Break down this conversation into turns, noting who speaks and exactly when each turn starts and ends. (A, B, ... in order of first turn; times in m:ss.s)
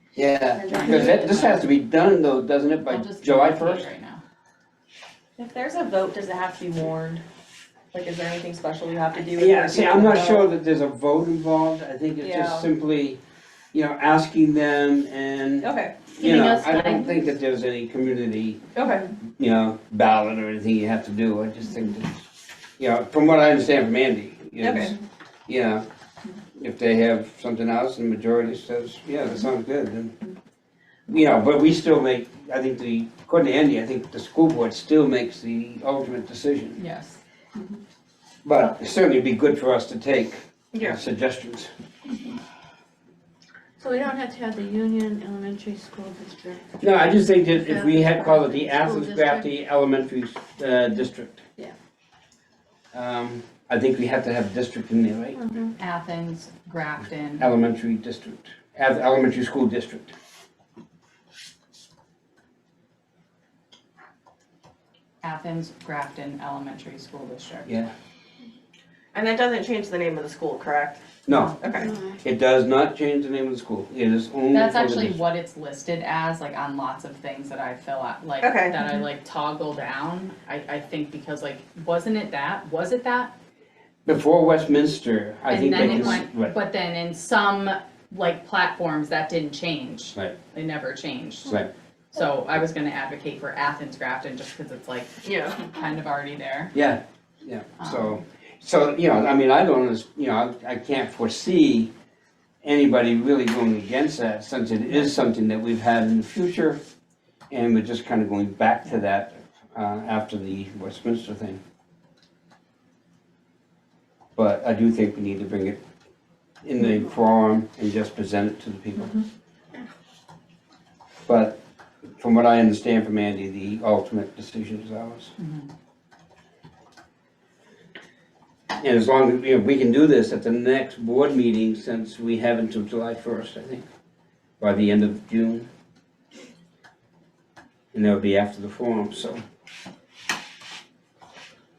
0:00.2-0:03.9 A
0:00.6-0:01.2 B
0:00.7-0:01.6 C
0:02.9-0:04.2 C
0:05.4-0:07.2 D
0:07.9-0:10.4 D
0:09.3-0:13.2 A
0:12.2-0:12.6 D
0:13.7-0:18.6 A
0:15.6-0:16.1 D
0:16.2-0:17.3 C
0:18.8-0:19.1 D
0:19.4-0:22.2 A
0:22.8-0:25.9 A
0:24.6-0:24.9 D
0:26.6-0:30.2 A
0:31.1-0:36.8 A
0:36.8-0:37.2 C
0:38.4-0:41.7 A
0:43.8-0:46.6 B
0:46.8-0:51.4 A
0:47.6-0:49.5 B
0:52.9-0:55.4 A
0:55.4-0:55.7 B
0:55.8-0:57.5 C
0:57.4-1:00.1 A
1:05.2-1:07.7 C
1:07.7-1:07.9 A
1:09.1-1:11.0 D
1:11.3-1:11.6 A
1:11.3-1:11.6 C
1:11.6-1:11.9 D
1:11.7-1:12.1 B
1:12.2-1:15.2 A
1:14.5-1:23.3 C
1:18.4-1:18.8 D
1:24.0-1:26.5 A
1:25.5-1:31.5 C
1:31.5-1:31.7 A
1:32.1-1:36.7 C
1:36.7-1:41.9 A
1:37.8-1:38.2 C
1:42.6-1:46.8 A
1:47.5-1:51.6 A
1:54.4-1:55.8 A
1:56.6-1:59.2 A
2:01.3-2:01.6 A
2:02.2-2:05.4 A
2:05.4-2:05.7 C
2:08.8-2:13.9 A
2:14.6-2:15.7 A
2:17.9-2:19.4 A